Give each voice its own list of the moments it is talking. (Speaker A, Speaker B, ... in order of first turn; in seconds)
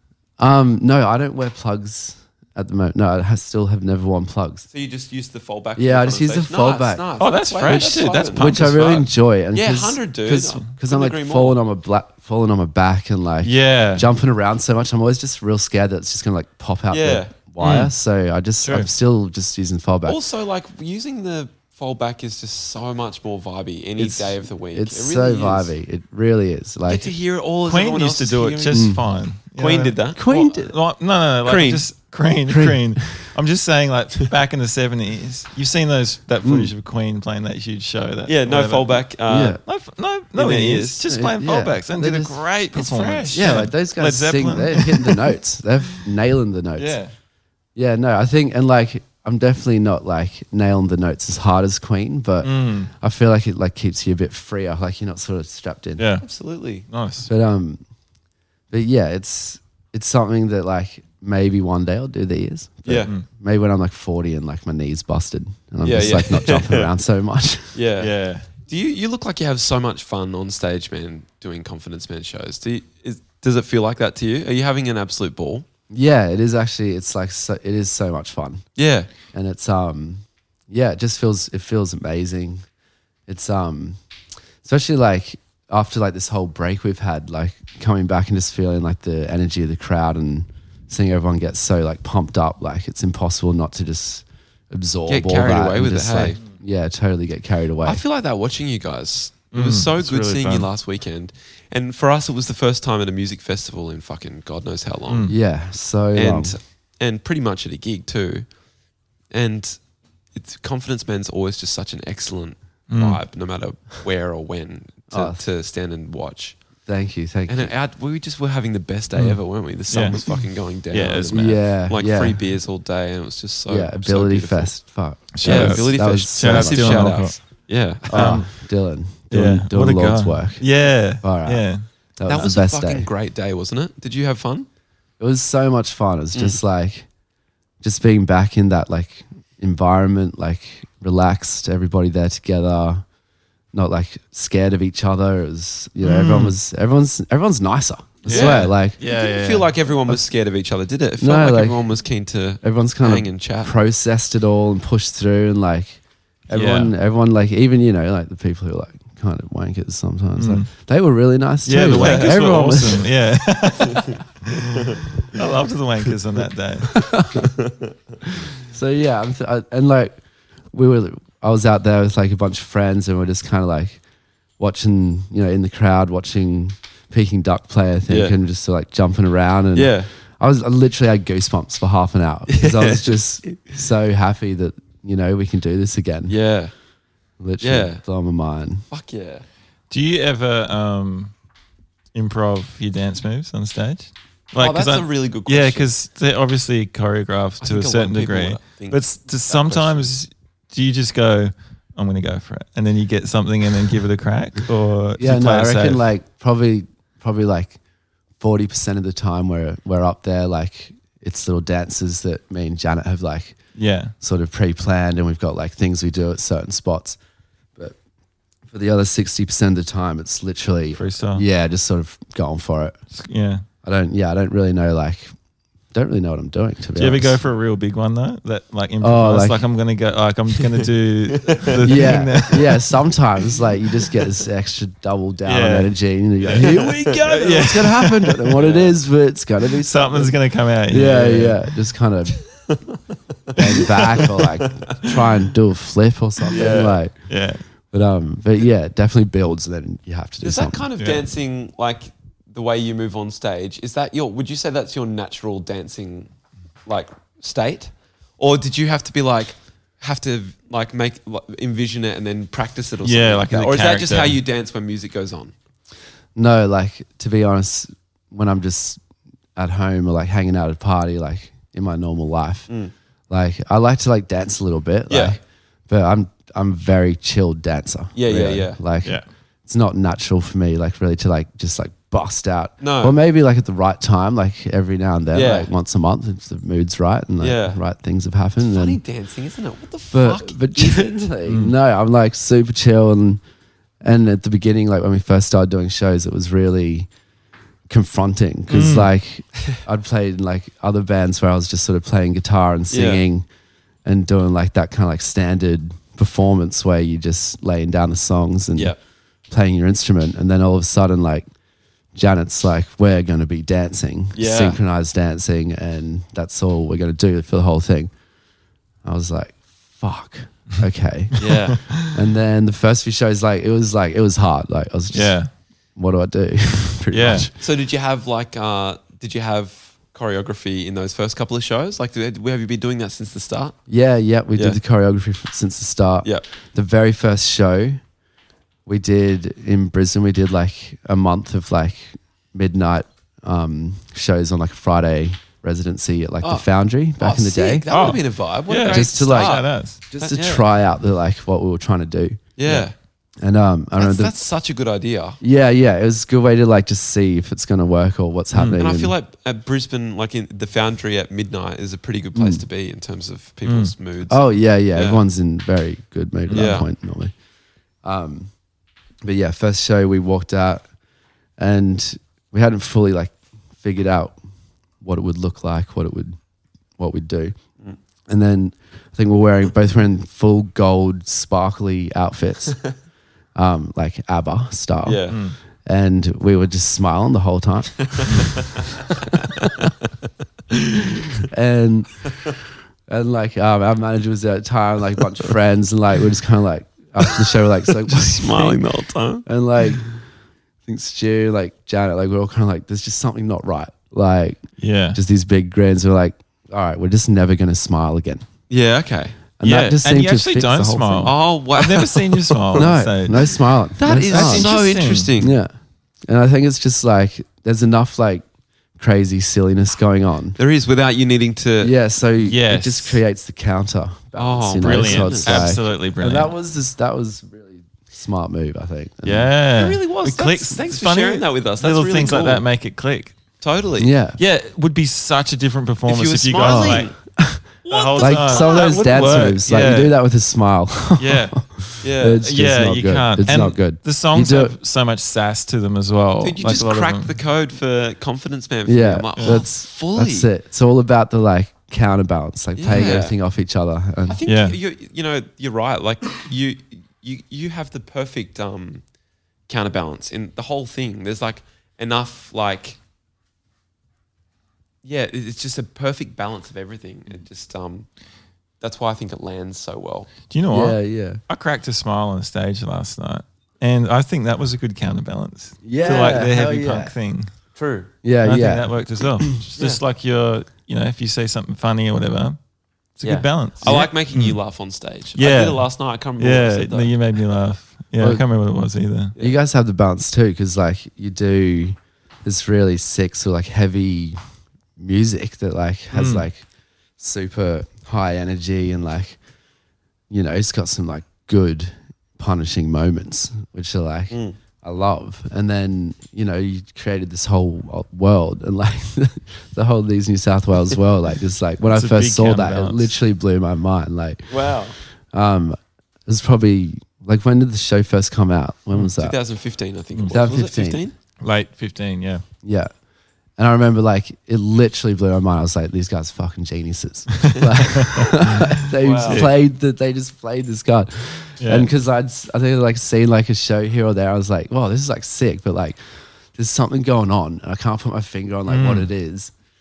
Speaker A: 0.4-4.7, 5.8-7.0, 7.7-20.2, 24.0-27.1, 28.7-29.0, 30.2-30.8, 32.5-33.2, 36.4-36.7, 39.3-39.6, 41.1-42.4, 43.3-47.0, 47.8-56.1, 57.3-57.8, 58.7-67.8, 75.9-78.7, 79.3-82.7, 83.3-84.0, 84.6-98.0, 105.3-106.5, 115.1-115.4, 116.8-117.7, 121.3-122.4, 123.7-127.2, 128.1-130.7, 131.2-133.1, 135.2-137.1, 137.8-143.0, 143.7-149.0, 151.2-151.8, 152.6-163.1, 166.9-167.5, 168.6-170.2, 170.7-174.0, 174.6-186.3, 187.4-188.9, 205.2-207.8, 208.4-213.6, 214.2-217.2, 218.7-223.0, 223.8-225.3, 225.9-227.4, 229.0-229.6, 231.8-242.4, 243.6-247.1, 247.9-250.8, 266.4-269.0, 269.6-272.7, 273.3-289.0, 290.1-293.4, 294.0-297.1, 297.9-303.4, 304.1-308.9, 309.5-311.4, 312.1-318.1, 319.0-321.4, 321.9-325.4, 326.0-327.6, 333.9-338.0, 338.9-347.9, 348.9-352.4, 353.4-354.3, 355.4-359.1, 362.3-362.6, 364.3-367.3, 368.0-368.5, 369.2-370.8, 371.6-374.4, 375.0-376.4, 377.0-377.6, 378.3-382.8, 383.6-385.2, 385.9-388.5, 391.5-392.2, 393.1-398.8, 399.4-400.1, 400.9-404.6, 405.1-408.5, 409.6-411.3, 412.7-414.7, 415.4-415.7, 416.3-418.4, 419.0-420.6, 421.8-429.5, 434.0-434.4, 436.6-437.6, 438.2-444.8, 448.9-454.4, 470.7-471.4, 475.8-477.1, 478.2-479.5, 488.2-488.4, 489.4-494.4, 495.0-496.6, 497.2-499.4, 500.3-514.6, 515.3-519.4, 520.3-521.0, 522.6-522.9, 523.6-539.5
Speaker B: 4.7-9.0, 9.5-11.6, 16.9-17.3, 20.1-25.7, 26.9-29.0, 29.6-30.2, 31.4-31.9, 38.3-39.6, 40.4-41.0, 42.7-43.7, 56.2-56.9, 62.9-63.1, 65.8-66.9, 67.7-68.1, 68.6-75.7, 78.8-79.1, 95.1-96.4, 97.8-105.4, 106.1-108.5, 109.3-116.6, 117.5-124.7, 125.4-128.4, 132.2-134.7, 148.3-153.7, 161.9-162.7, 163.9-164.1, 167.4-167.9, 178.1-178.4, 179.8-180.1, 182.5-183.6, 186.3-186.7, 187.6-188.0, 188.9-189.4, 194.6-195.9, 197.6-200.1, 231.4-232.1, 236.5-237.7, 238.5-239.0, 242.7-243.0, 244.7-245.1, 246.5-247.0, 250.4-256.3, 256.9-265.5, 275.1-275.4, 278.1-278.8, 282.8-283.2, 285.3-285.7, 287.4-287.8, 288.6-291.3, 302.9-303.2, 314.4-314.8, 321.4-321.8, 327.6-333.8, 347.2-350.6, 352.6-352.9, 354.0-355.4, 358.8-365.2, 366.5-366.9, 385.1-385.4, 388.1-389.9, 391.0-391.3, 398.1-399.5, 408.7-409.4, 411.2-412.9, 414.0-415.6, 420.6-421.9, 424.4-425.7, 429.8-432.7, 433.6-434.1, 436.1-437.1, 437.8-439.1, 439.7-440.0, 442.0-442.4, 446.4-450.5, 452.8-453.4, 454.3-459.0, 459.7-463.0, 465.0-468.1, 468.8-470.3, 475.9-476.4, 477.8-478.1, 483.2-487.1, 504.3-504.6, 514.5-515.0, 519.1-521.1, 529.0-529.5
Speaker C: 7.2-9.1, 13.4-14.1, 17.6-17.9, 18.6-18.9, 27.7-39.0, 39.6-45.3, 52.4-52.9, 56.0-56.2, 56.9-57.3, 68.0-68.5, 99.5-100.7, 105.1-105.3, 112.9-113.2, 119.2-120.2, 120.9-121.6, 125.3-127.4, 128.1-128.5, 129.3-131.8, 146.0-146.6, 148.2-149.8, 156.5-156.9, 160.4-160.7, 161.7-167.0, 189.9-191.3, 192.1-206.1, 213.8-214.1, 220.9-221.4, 223.1-223.7, 226.9-232.9, 235.4-238.4, 239.8-241.6, 243.7-244.3, 247.3-247.6, 251.0-251.3, 263.0-264.4, 291.5-291.7, 298.7-299.1, 321.8-322.1, 325.1-325.5, 327.1-327.5, 347.9-350.0, 358.5-358.9, 363.6-363.9, 366.5-366.8, 385.3-385.6, 404.8-405.2, 409.6-413.6, 414.2-415.3, 422.4-423.2, 424.8-426.5, 429.2-433.4, 434.4-437.1, 437.9-440.2, 441.2-441.5, 442.4-447.4, 452.9-453.2, 454.5-454.8, 470.5-477.5, 478.4-482.6, 483.2-484.6, 485.4-489.4, 496.1-496.4, 511.9-513.1, 521.4-522.4, 527.5-529.5, 531.6-531.9, 538.7-539.1